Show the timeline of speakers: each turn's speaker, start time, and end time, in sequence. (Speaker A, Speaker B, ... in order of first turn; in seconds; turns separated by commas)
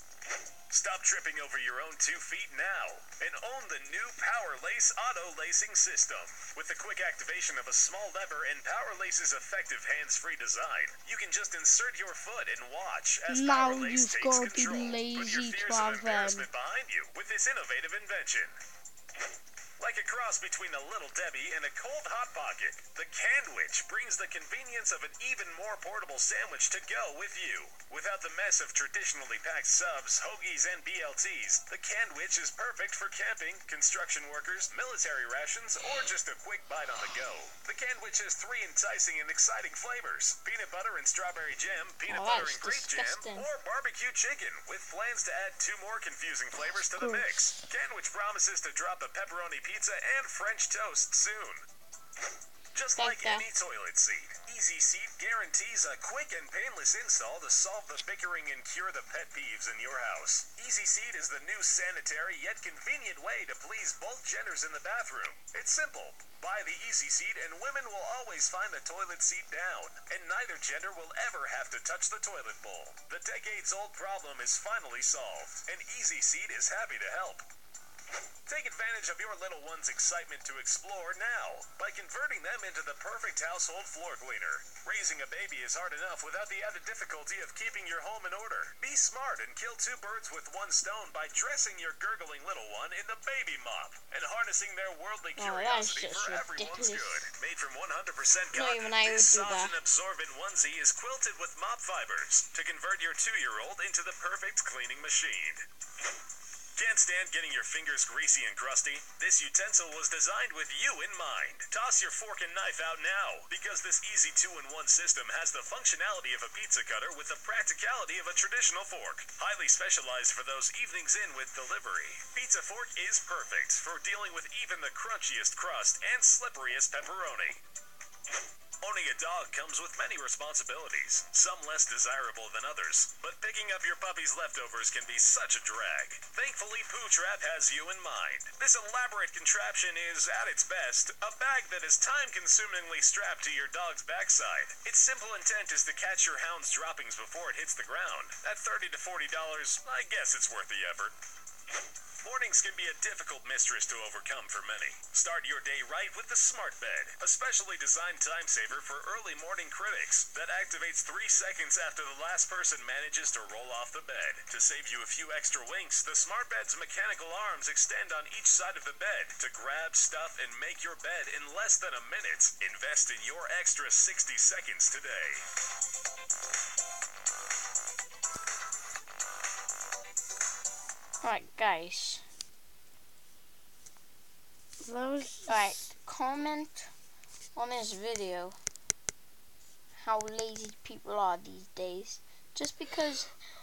Speaker A: 0.7-18.6, Speaker B: 13.3-16.5, Speaker A: 19.8-51.6, Speaker C: 42.1-43.5, Speaker A: 52.7-77.5, Speaker C: 52.9-53.5, Speaker A: 78.5-105.6, Speaker C: 95.3-97.2, Speaker C: 98.5-99.8, Speaker A: 106.7-127.6, Speaker A: 128.8-151.2, Speaker A: 152.2-175.4, Speaker C: 181.2-182.2, Speaker B: 184.8-185.6, Speaker C: 185.5-186.9, Speaker C: 187.5-188.6, Speaker C: 189.9-193.3